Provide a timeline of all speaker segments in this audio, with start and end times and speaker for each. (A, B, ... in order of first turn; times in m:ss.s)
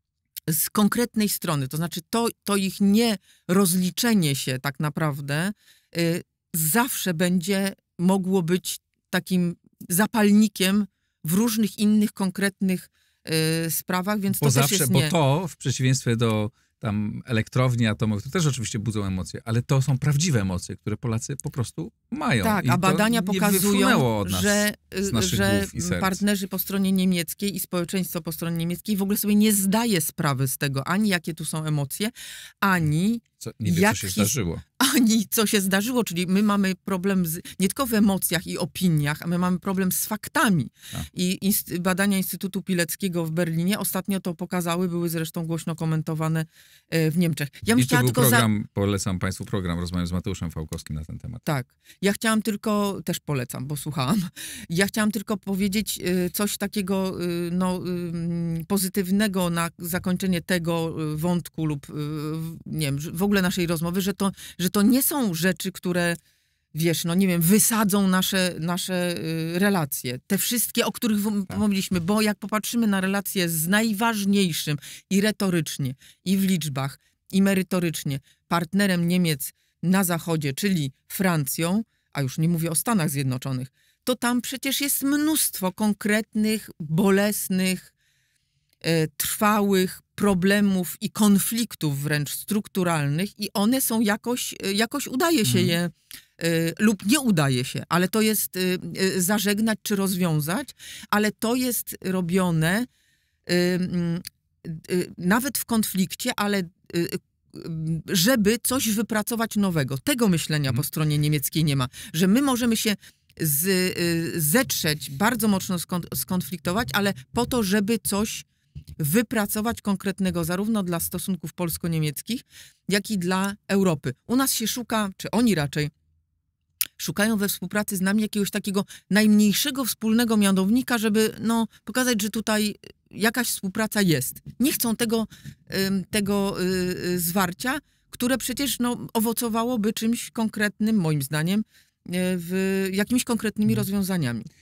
0:00.5-0:15.2 A
0:14.4-0:26.2 B
0:22.4-0:48.5 A
0:33.4-0:34.6 B
0:47.8-0:51.4 B
0:51.4-1:06.2 A
1:06.7-1:27.9 A
1:28.8-1:42.9 A
1:35.5-1:35.8 B
1:43.5-1:58.5 A
1:59.0-2:05.9 A
2:07.0-2:24.5 A